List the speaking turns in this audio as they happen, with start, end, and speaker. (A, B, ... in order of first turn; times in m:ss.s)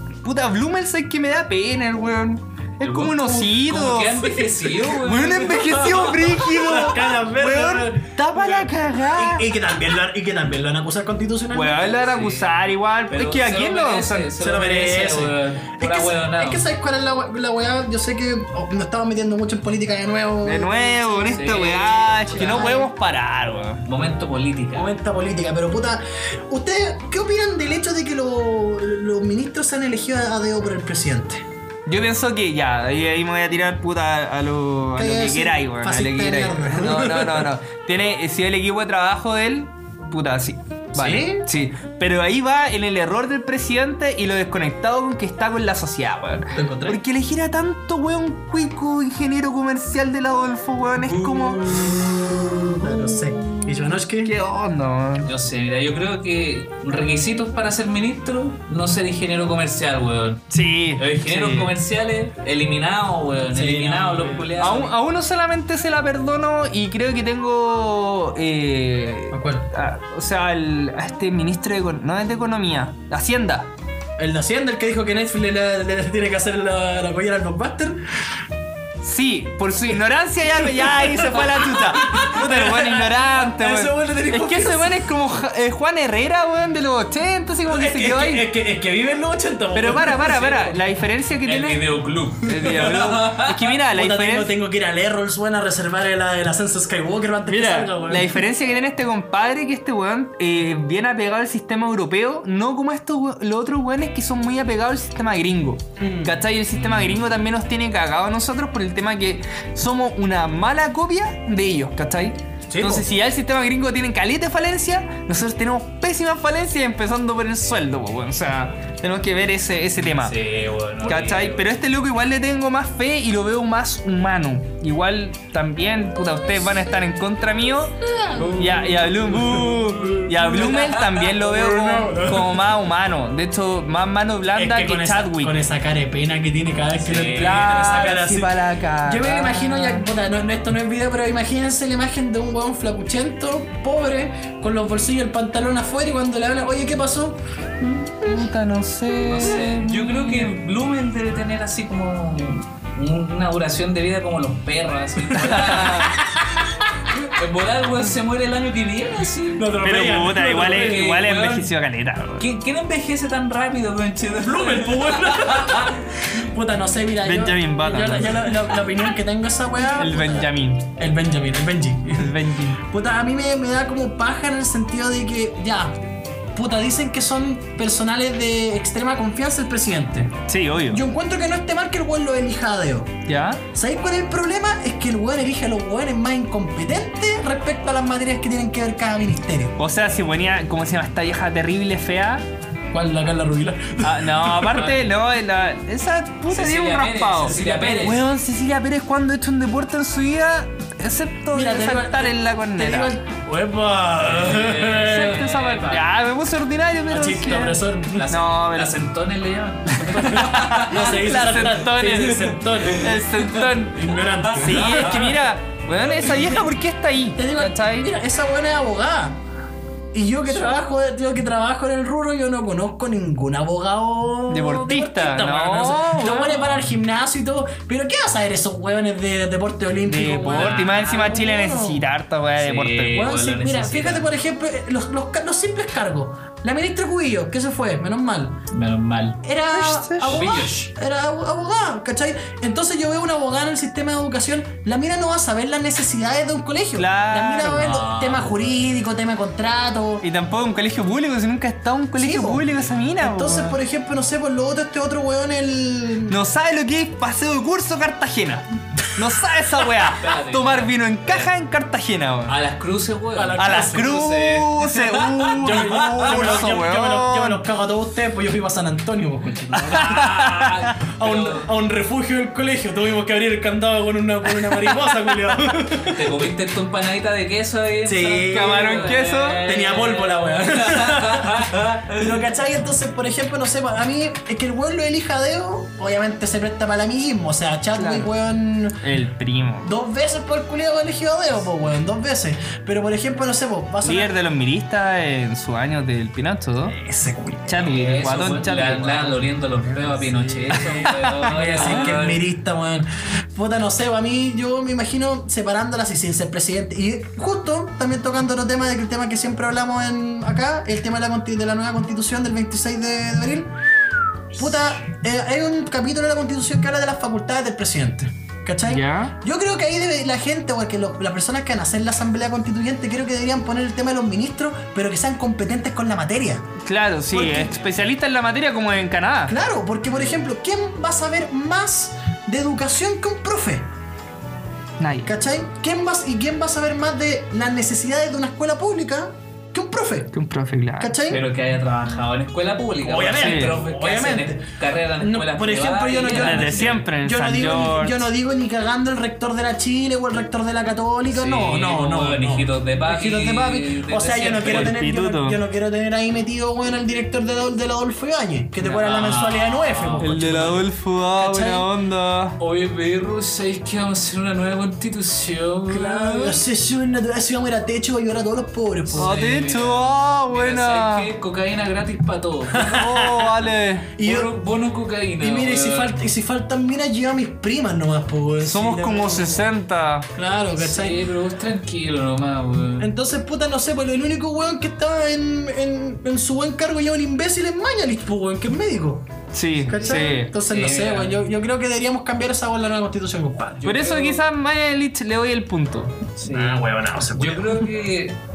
0:00.2-0:09.5 A
0:02.8-0:06.5 B
0:06.4-0:12.2 C
0:11.5-0:14.3 A
0:12.0-0:12.5 B
0:13.1-0:16.6 B
0:14.4-0:21.5 C
0:20.4-0:23.8 A
0:21.3-0:22.7 B
0:22.3-0:22.9 C
0:23.8-0:25.0 B
0:24.7-0:31.4 C
0:31.9-0:52.0 A
0:35.0-0:37.5 C
0:40.9-0:41.5 C
0:46.6-0:47.0 C
0:51.1-0:54.3 C
0:52.8-0:55.3 A
0:55.2-1:00.4 B
1:00.5-1:01.7 A
1:01.0-1:05.0 B
1:03.5-1:04.7 C
1:04.6-1:13.7 A
1:09.3-1:09.7 C
1:14.2-1:18.2 C
1:19.0-1:28.5 A
1:20.5-1:25.1 C
1:27.7-1:30.8 C
1:29.7-1:31.8 A
1:31.4-1:33.6 B
1:32.4-1:34.5 A
1:33.9-1:38.4 C
1:37.5-2:00.3 A
1:46.0-1:46.4 C
1:46.7-1:47.2 B
1:52.7-1:53.1 C
2:00.2-2:01.6 B
2:01.0-2:08.0 A
2:08.0-2:12.6 C
2:08.4-2:08.8 B
2:08.6-2:15.5 A
2:10.6-2:11.2 B
2:14.5-2:28.5 C
2:17.0-2:17.8 B
2:17.4-2:20.1 A
2:28.2-2:30.5 A
2:29.1-2:36.2 B
2:35.4-2:36.1 A
2:35.4-2:36.4 C
2:37.3-2:39.9 B
2:39.6-2:41.1 C
2:39.8-2:42.5 A
2:40.5-2:41.7 B
2:42.4-2:46.0 B
2:44.4-2:56.0 C
2:47.2-2:48.8 A
2:49.9-2:50.9 A
2:52.2-2:52.8 A
2:56.6-3:00.4 C
3:00.5-3:01.0 A
3:00.9-3:03.1 C
3:03.3-3:03.6 A
3:03.7-3:09.8 C
3:09.8-3:12.5 A
3:12.9-3:14.9 C
3:14.0-3:23.2 A
3:16.5-3:18.2 B
3:17.4-3:18.2 C
3:21.5-3:25.4 C
3:24.2-3:26.1 B
3:25.0-3:29.0 A
3:27.1-3:28.3 C
3:28.1-3:31.7 B
3:30.1-3:38.1 A
3:30.2-3:33.3 C
3:33.9-3:35.4 C
3:34.4-3:35.3 B
3:36.0-3:36.7 C
3:37.4-3:39.4 C
3:40.1-3:52.0 C
3:44.5-3:46.6 A
3:50.1-3:53.3 A
3:50.5-3:51.3 B
3:52.6-3:54.3 B
3:53.1-3:58.6 C
3:58.7-3:59.4 B
3:59.4-4:10.2 C
3:59.7-4:00.5 A
4:00.3-4:00.9 B
4:07.0-4:08.0 A
4:07.8-4:08.7 B
4:10.2-4:13.8 A
4:12.2-4:16.4 C
4:16.3-4:22.5 A
4:20.1-4:21.5 B
4:22.5-4:26.7 B
4:23.4-4:24.2 C
4:23.6-4:27.6 A
4:25.6-4:30.5 C
4:29.5-4:31.7 B
4:29.9-4:30.9 A
4:31.0-4:36.4 C
4:36.0-4:42.4 B
4:38.0-4:49.0 C
4:38.5-4:39.6 A
4:48.0-4:48.3 A
4:49.0-4:49.9 A
4:49.8-4:54.3 C
4:54.0-4:57.0 A
4:56.8-4:57.9 C
4:57.7-4:59.4 A
4:57.8-5:02.4 B
4:59.8-5:13.7 C
5:00.9-5:02.1 A
5:14.6-5:26.7 C
5:18.8-5:19.4 A
5:26.8-5:29.6 A
5:27.3-5:27.8 C
5:29.5-5:33.9 C
5:35.0-5:35.3 A
5:35.3-5:40.4 C
5:40.3-5:41.2 A
5:41.0-5:41.4 C
5:41.3-5:47.0 B
5:43.0-6:00.8 C
5:43.4-5:43.8 A
5:46.3-5:48.3 A
5:51.3-5:55.0 B
5:54.6-5:55.6 A
5:58.8-6:00.7 B
6:00.2-6:02.6 A
6:01.4-6:01.9 C
6:02.6-6:06.6 B
6:05.9-6:09.4 C
6:09.1-6:13.0 B
6:09.2-6:11.3 A
6:12.7-6:13.6 C
6:12.8-6:14.1 A
6:14.2-6:14.5 C
6:14.2-6:16.2 B
6:15.4-6:19.6 C
6:18.6-6:20.3 A
6:20.4-6:21.2 C
6:20.8-6:23.1 B
6:23.0-6:29.3 C
6:29.5-6:30.5 A
6:29.8-6:33.8 C
6:30.0-6:31.4 B
6:33.8-6:34.5 B
6:33.8-6:36.3 A
6:36.4-6:38.4 B
6:36.5-6:37.9 C